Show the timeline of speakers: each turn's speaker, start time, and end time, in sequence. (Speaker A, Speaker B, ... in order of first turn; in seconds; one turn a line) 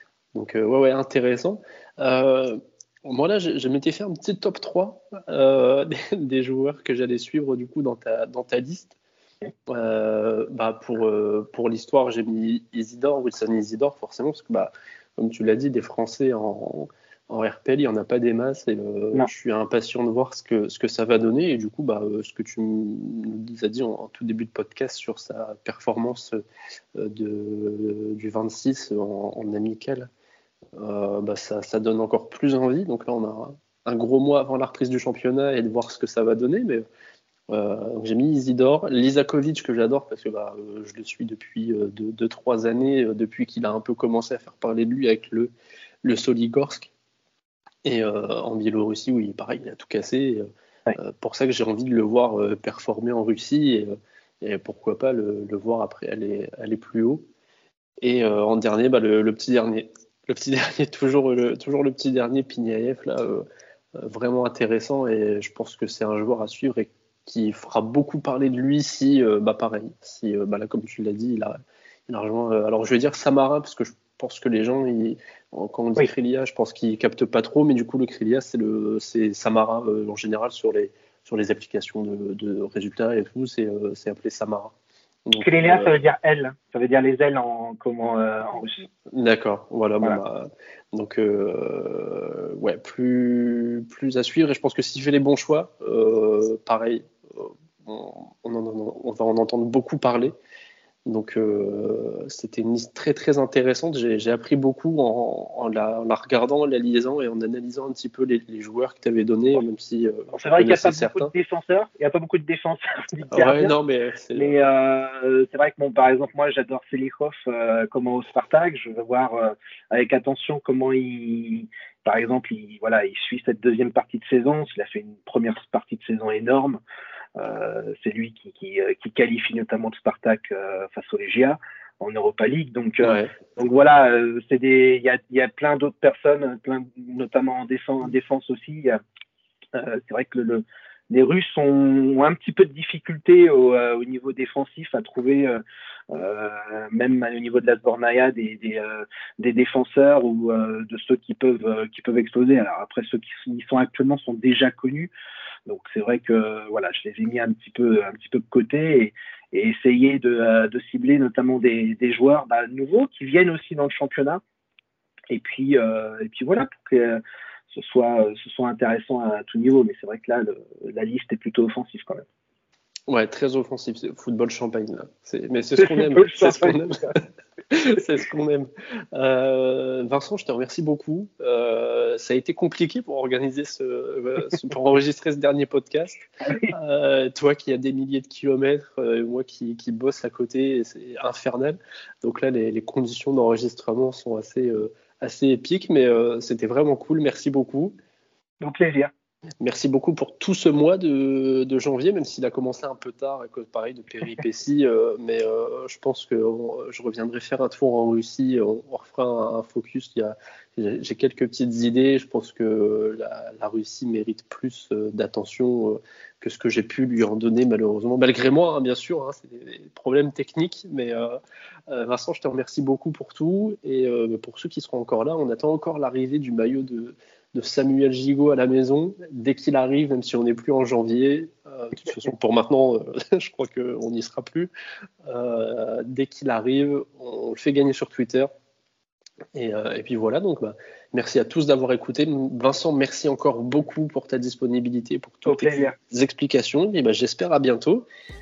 Speaker A: 0.3-9.0
Speaker A: 9.7-26.4
Speaker A: 26.9-30.1
Speaker A: 30.8-36.8
Speaker A: 37.5-45.5
Speaker A: 46.0-46.9
Speaker A: 47.9-57.3
Speaker A: 58.0-71.6
Speaker A: 72.1-84.7
Speaker A: 85.3-86.0
Speaker B: 85.4-88.9
Speaker A: 89.1-100.3
Speaker A: 101.1-111.3
Speaker B: 110.3-113.7
Speaker A: 113.3-114.5
Speaker B: 114.3-126.8
Speaker B: 127.4-139.0
Speaker A: 133.0-133.3
Speaker B: 139.8-155.1
Speaker B: 155.7-164.4
Speaker B: 165.3-172.3
Speaker A: 173.1-197.9
Speaker B: 175.8-177.1
Speaker B: 186.5-186.7
Speaker B: 198.6-199.1
Speaker A: 199.6-234.7
Speaker A: 235.3-238.5
Speaker A: 239.5-248.0
Speaker B: 245.5-245.9